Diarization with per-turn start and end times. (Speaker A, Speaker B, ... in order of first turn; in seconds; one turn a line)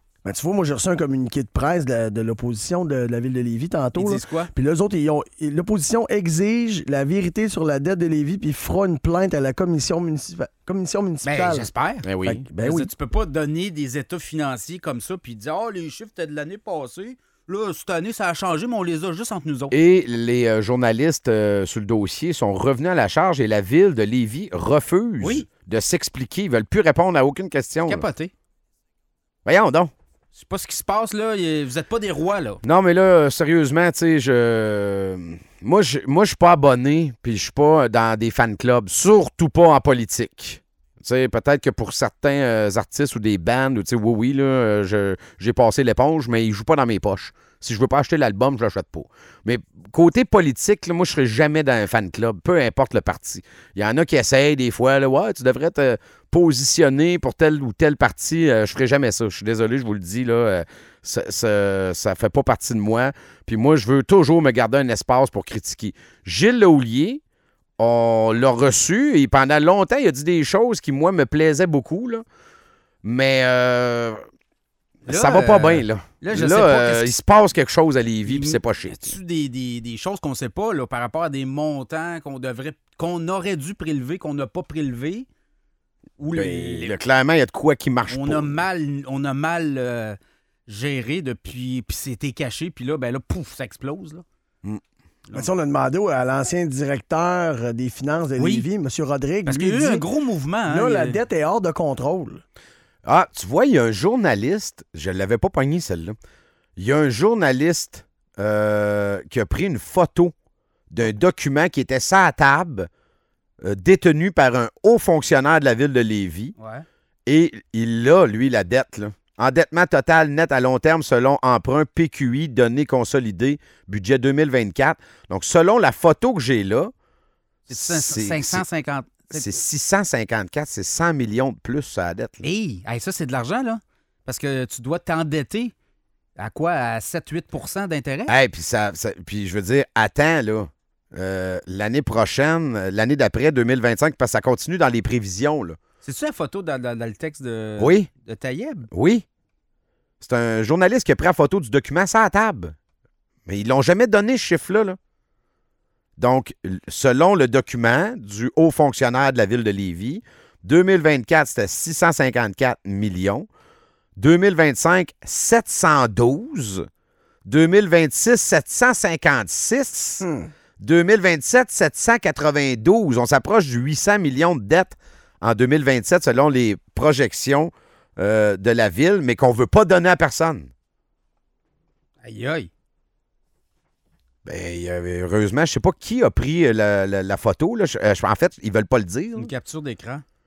Speaker A: 0.2-11.7
Speaker B: 3.9-4.5
Speaker B: 11.2-19.8
Speaker C: 12.0-12.4
Speaker A: 12.2-12.9
Speaker C: 19.7-28.1
Speaker B: 25.2-25.5
Speaker B: 27.9-28.3
Speaker C: 29.4-29.9
Speaker B: 30.3-32.6
Speaker C: 32.6-67.2
Speaker C: 67.8-72.2
Speaker C: 73.0-74.2
Speaker C: 75.0-79.2
Speaker B: 75.1-77.1
Speaker B: 78.2-85.3
Speaker B: 86.2-87.0
Speaker C: 86.3-88.6
Speaker B: 88.1-94.2
Speaker A: 95.3-100.1
Speaker B: 98.4-98.7
Speaker B: 99.4-101.2
Speaker A: 100.7-102.4
Speaker C: 103.0-106.2
Speaker C: 106.8-110.3
Speaker C: 110.9-112.9
Speaker C: 113.6-116.5
Speaker B: 116.6-116.8
Speaker C: 117.3-126.9
Speaker B: 127.7-129.5
Speaker C: 127.7-128.6
Speaker C: 129.3-132.4
Speaker B: 132.4-135.7
Speaker B: 136.4-138.3
Speaker C: 138.3-145.8
Speaker B: 146.0-148.9
Speaker C: 147.8-148.1
Speaker C: 148.9-149.2
Speaker C: 150.2-152.7
Speaker C: 153.4-154.9
Speaker C: 156.2-163.5
Speaker C: 164.2-166.8
Speaker C: 167.4-170.3
Speaker A: 170.2-170.5
Speaker C: 170.8-180.7
Speaker B: 182.2-182.7
Speaker C: 184.4-189.5
Speaker B: 189.3-190.2